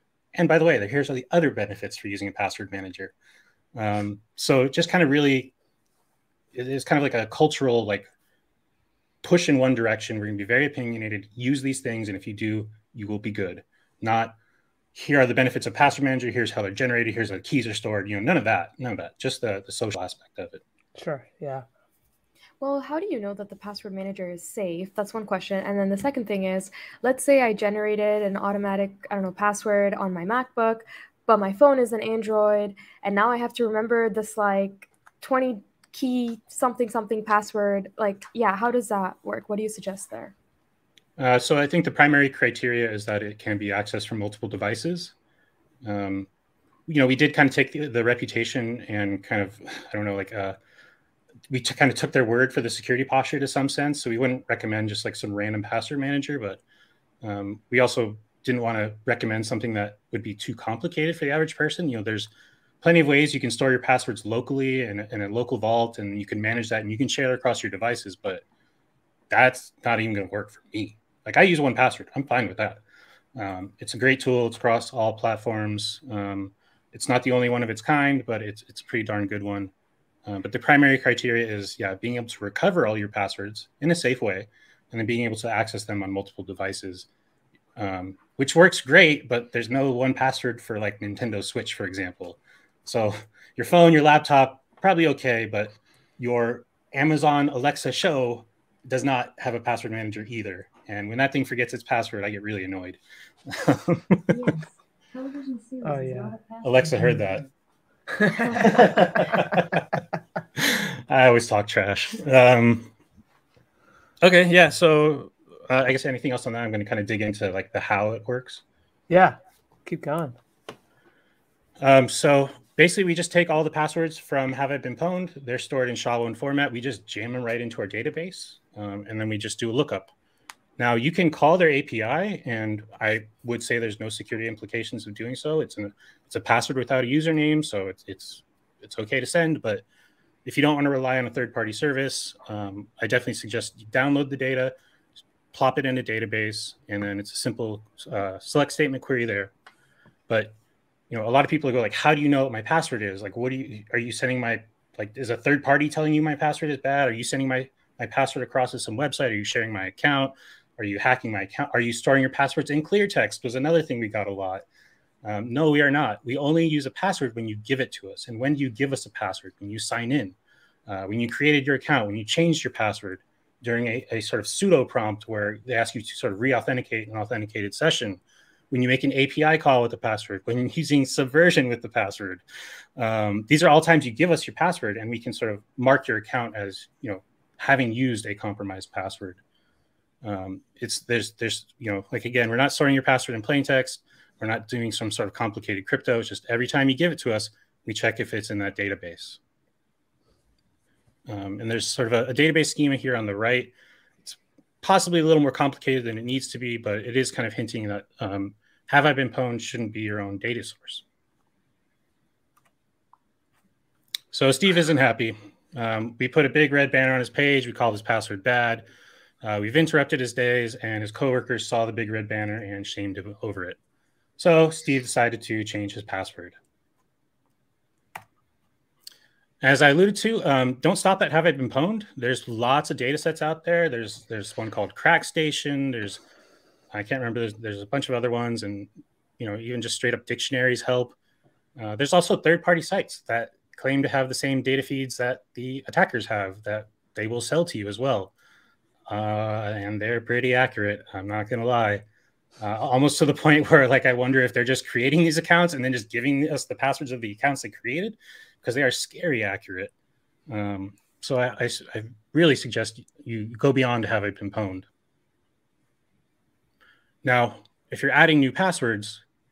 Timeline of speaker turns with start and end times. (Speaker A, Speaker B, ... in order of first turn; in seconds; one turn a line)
Speaker A: 0.3-3.1
Speaker A: 3.8-5.5
Speaker A: 6.5-8.1
Speaker A: 9.2-14.4
Speaker A: 14.9-20.6
Speaker B: 21.0-21.6
Speaker C: 22.6-40.3
Speaker A: 41.2-45.1
Speaker A: 45.8-46.3
Speaker A: 46.9-50.6
Speaker A: 51.5-56.6
Speaker A: 57.2-62.3
Speaker A: 62.8-68.4
Speaker A: 69.3-72.8
Speaker A: 73.4-79.7
Speaker A: 80.3-87.1
Speaker A: 87.8-104.5
Speaker B: 105.8-106.4
Speaker A: 106.6-107.5
Speaker B: 108.2-108.7
Speaker A: 108.5-109.9
Speaker A: 110.6-112.9
Speaker A: 114.2-118.6
Speaker B: 119.1-120.4
Speaker A: 121.8-130.1
Speaker A: 130.8-139.8
Speaker A: 140.4-144.7
Speaker A: 145.5-149.5
Speaker A: 150.3-150.5
Speaker A: 151.1-164.7
Speaker A: 165.2-170.4
Speaker A: 170.9-182.4
Speaker A: 183.0-189.4
Speaker A: 190.2-199.4
Speaker A: 201.3-203.7
Speaker A: 204.2-211.0
Speaker A: 214.3-218.8
Speaker A: 219.4-223.8
Speaker A: 224.4-226.6
Speaker A: 229.6-236.2
Speaker A: 236.9-241.2
Speaker A: 241.8-248.3
Speaker A: 249.1-252.0
Speaker A: 252.6-259.9
Speaker A: 260.5-264.9
Speaker A: 267.2-269.2